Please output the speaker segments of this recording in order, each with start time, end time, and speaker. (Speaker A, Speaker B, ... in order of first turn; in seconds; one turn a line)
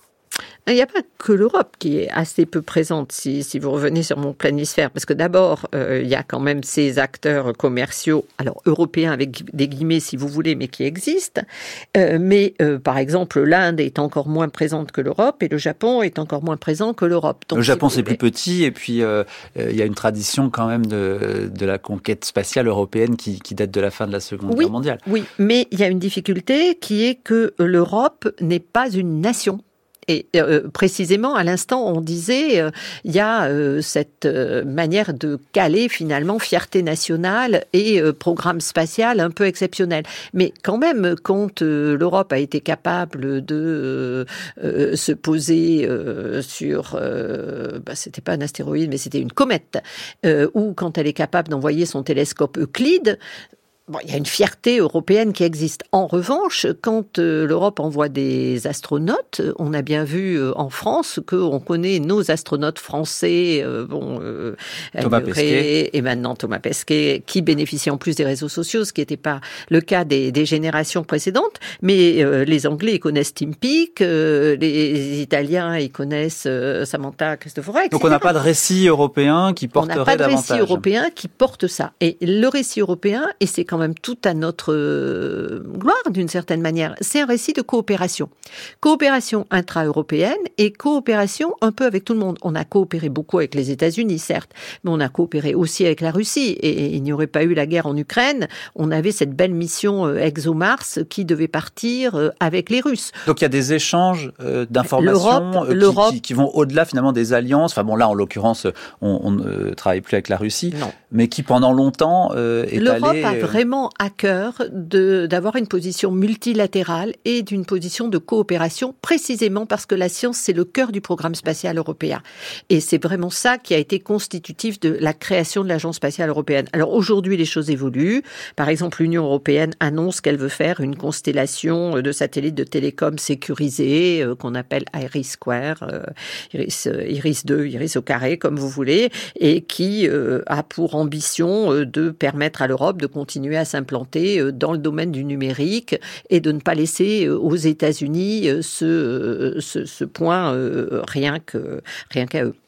Speaker A: 0.7-18.2
Speaker B: 17.5-25.0
Speaker A: 24.5-53.2
Speaker A: 53.9-78.3
Speaker B: 65.0-65.7
Speaker B: 77.9-80.8
Speaker A: 79.8-88.3
Speaker A: 88.8-103.1
Speaker B: 103.2-113.6
Speaker A: 104.8-106.2
Speaker A: 112.8-152.5